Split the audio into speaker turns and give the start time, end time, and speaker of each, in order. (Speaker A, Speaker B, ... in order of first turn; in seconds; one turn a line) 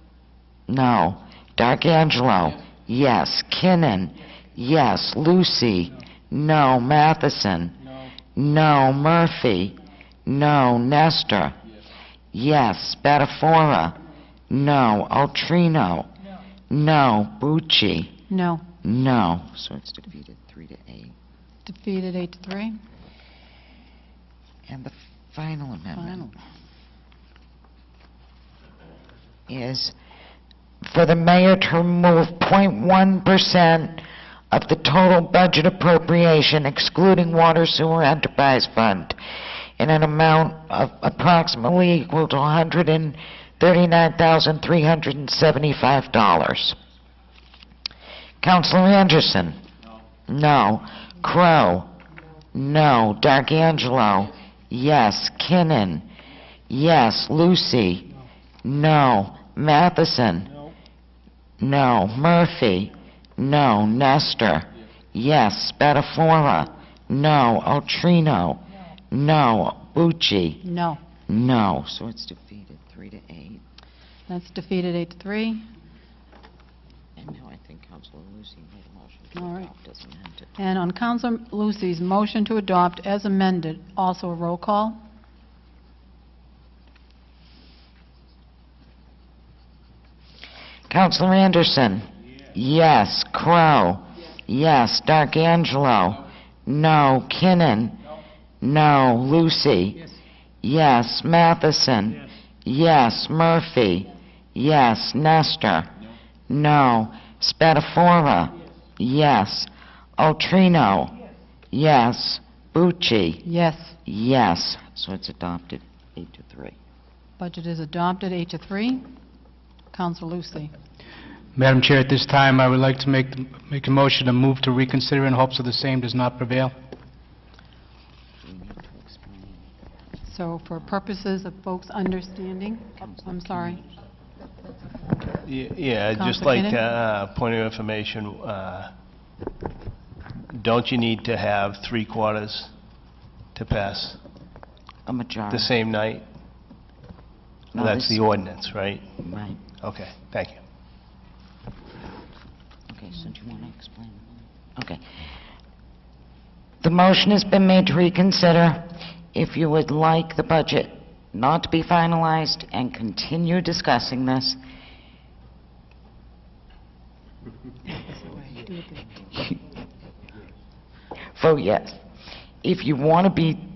Speaker A: 0.7-7.8
Speaker A: 8.3-11.6
Speaker A: 12.3-14.0
Speaker A: 14.5-16.1
Speaker A: 16.7-18.1
Speaker B: 18.3-18.6
Speaker A: 18.8-21.1
Speaker B: 21.6-22.8
Speaker A: 24.7-26.3
Speaker A: 29.5-29.9
Speaker A: 30.8-39.1
Speaker A: 39.8-46.8
Speaker A: 48.4-49.6
Speaker A: 50.3-51.9
Speaker A: 52.5-56.0
Speaker A: 56.7-58.1
Speaker A: 58.6-60.6
Speaker A: 61.6-70.6
Speaker B: 70.6-71.0
Speaker A: 71.3-73.6
Speaker B: 74.3-75.7
Speaker A: 77.2-80.5
Speaker B: 79.3-79.7
Speaker B: 80.6-85.0
Speaker A: 90.9-98.0
Speaker A: 98.6-100.0
Speaker A: 100.6-105.9
Speaker A: 106.5-111.1
Speaker A: 111.7-113.4
Speaker B: 113.4-113.9
Speaker A: 114.0-116.8
Speaker B: 117.4-119.0
Speaker B: 119.9-120.7
Speaker C: 121.5-126.7
Speaker A: 128.4-129.7
Speaker B: 130.2-133.8
Speaker A: 133.0-133.9
Speaker D: 135.4-138.9
Speaker B: 136.1-136.8
Speaker D: 140.5-142.7
Speaker D: 143.5-144.2
Speaker A: 145.1-145.7
Speaker D: 145.5-146.2
Speaker A: 147.7-148.2
Speaker D: 147.7-149.0
Speaker A: 149.2-149.6
Speaker D: 149.8-150.6
Speaker A: 152.9-155.0
Speaker A: 156.8-164.6
Speaker B: 168.0-169.2
Speaker A: 171.3-172.0
Speaker A: 172.6-173.6